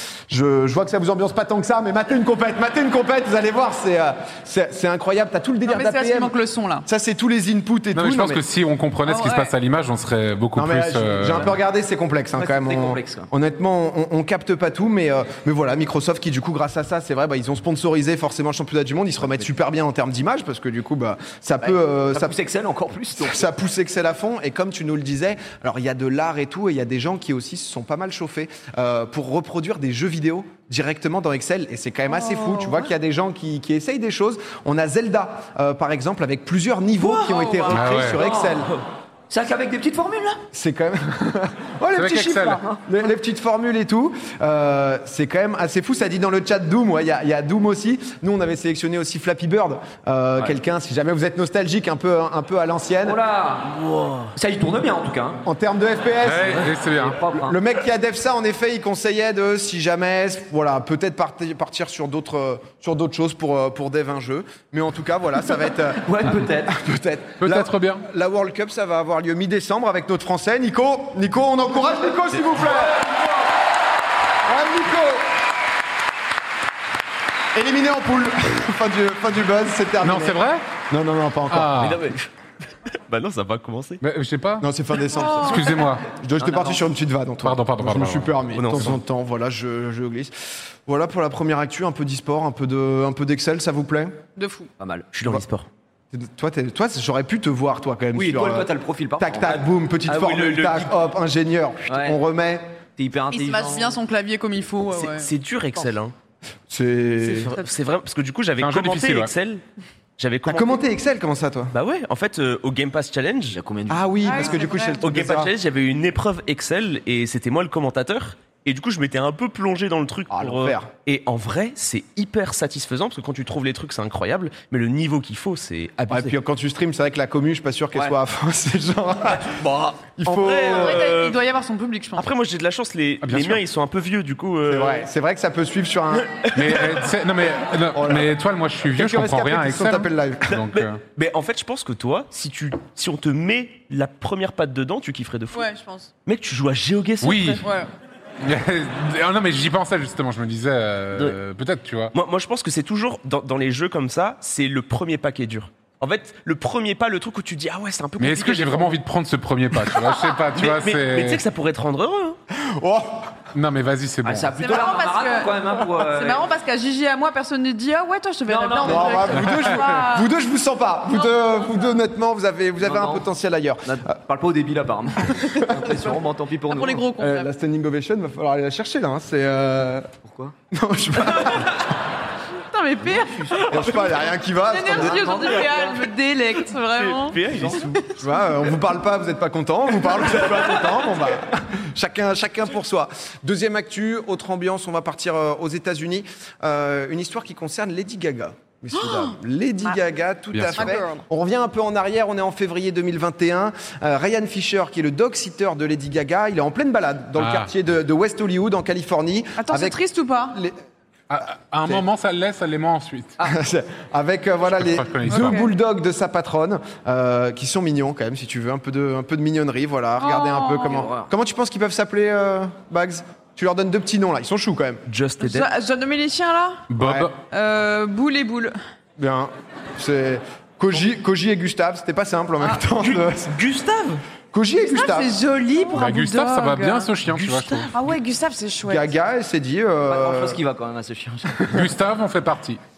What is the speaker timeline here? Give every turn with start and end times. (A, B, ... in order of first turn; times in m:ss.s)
0:00.3-0:06.3 A
0:05.6-0:06.8 B
0:06.8-0:08.4 A
0:07.9-0:11.5 C
0:09.0-0:09.5 B
0:10.5-0:22.3 A
0:12.4-0:13.3 D
0:21.6-0:23.5 D
0:23.2-0:38.7 A
0:32.1-0:32.9 B
0:37.0-0:38.2 B
0:37.7-0:38.2 C
0:38.5-0:38.8 E
0:39.3-0:40.4 D
0:40.5-0:53.2 A
0:41.9-0:42.6 C
0:53.0-0:53.7 D
0:53.6-0:54.3 E
0:54.3-0:55.4 D
0:55.4-0:56.7 A
0:56.2-0:57.2 C
0:56.5-0:57.6 D
0:57.3-1:13.0 A
1:06.0-1:06.7 D
1:07.4-1:08.0 C
1:12.6-1:13.1 D
1:14.4-1:15.2 A
1:17.5-1:21.7 A
1:20.0-1:20.6 C
1:21.5-1:22.0 C
1:21.8-1:22.3 D
1:23.0-1:24.0 E
1:24.0-1:24.7 C
1:24.6-1:30.3 A
1:25.1-1:25.7 B
1:25.4-1:26.0 C
1:26.4-1:26.9 D
1:27.4-1:28.4 C
1:28.5-1:29.0 E
1:30.9-1:34.1 A
1:34.4-1:34.7 B
1:34.8-1:35.1 D
1:35.1-1:35.7 E
1:36.1-1:42.6 A
1:38.1-1:39.7 D
1:40.1-1:40.9 E
1:41.9-1:42.2 D
1:43.0-1:44.0 D
1:43.3-1:45.3 B
1:44.9-1:46.1 E
1:46.7-1:47.5 A
1:47.2-1:49.6 E
1:48.6-1:49.3 C
1:50.2-1:50.8 E
1:50.5-1:51.7 A
1:51.7-1:53.6 E
1:53.5-1:54.7 D
1:53.9-1:55.5 A
1:54.2-1:55.0 B
1:55.0-2:06.3 E
2:00.3-2:00.9 A
2:06.1-2:09.6 A
2:09.4-2:11.4 E
2:10.2-2:11.0 A
2:10.7-2:12.3 B
2:12.1-2:15.1 E
2:13.2-2:13.6 C
2:14.6-2:16.3 A
2:16.1-2:17.0 E
2:16.5-2:21.0 C
2:17.9-2:18.3 A
2:18.9-2:20.6 A
2:20.5-2:25.7 E
2:25.5-2:26.1 B
2:26.2-2:27.6 E
2:27.2-2:27.6 C
2:27.6-2:27.9 B
2:28.4-2:32.1 C
2:32.1-2:39.0 E
2:38.2-2:41.4 C
2:39.9-2:42.4 E
2:42.6-2:43.3 A
2:43.5-2:44.5 C
2:44.2-2:46.4 D
2:44.6-2:50.3 B
2:48.5-2:49.6 D
2:48.8-2:54.2 A
2:52.8-2:53.3 D
2:53.8-2:57.1 D
2:55.2-2:56.2 A
2:56.7-2:57.5 B
2:57.2-3:00.1 A
3:00.2-3:00.5 D
3:00.7-3:01.8 A
3:02.5-3:07.4 B
3:03.0-3:04.0 D
3:03.7-3:05.6 A
3:04.9-3:06.2 E
3:05.1-3:05.9 D
3:06.7-3:08.0 E
3:07.5-3:07.8 D
3:07.5-3:30.0 A
3:08.0-3:08.3 B
3:18.9-3:20.0 B
3:20.5-3:20.9 C
3:20.7-3:21.2 B
3:27.3-3:27.7 C
3:29.6-3:30.6 B
3:31.3-3:33.4 C
3:33.4-3:45.0 A
3:34.7-3:35.6 C
3:35.3-3:35.7 B
3:40.2-3:41.0 B
3:40.8-3:41.3 D
3:45.1-3:45.7 E
3:45.4-3:46.9 B
3:46.9-3:47.3 C
3:47.0-3:47.3 A
3:47.4-3:48.8 B
3:49.2-3:53.5 A
3:52.6-3:52.9 B
3:53.0-3:54.2 E
3:54.5-3:55.3 A
3:54.9-3:57.1 B
3:55.9-3:57.9 C
3:57.2-3:57.9 E
3:57.9-3:59.1 B
3:58.8-4:00.6 A
4:00.0-4:01.7 D
4:01.7-4:02.8 C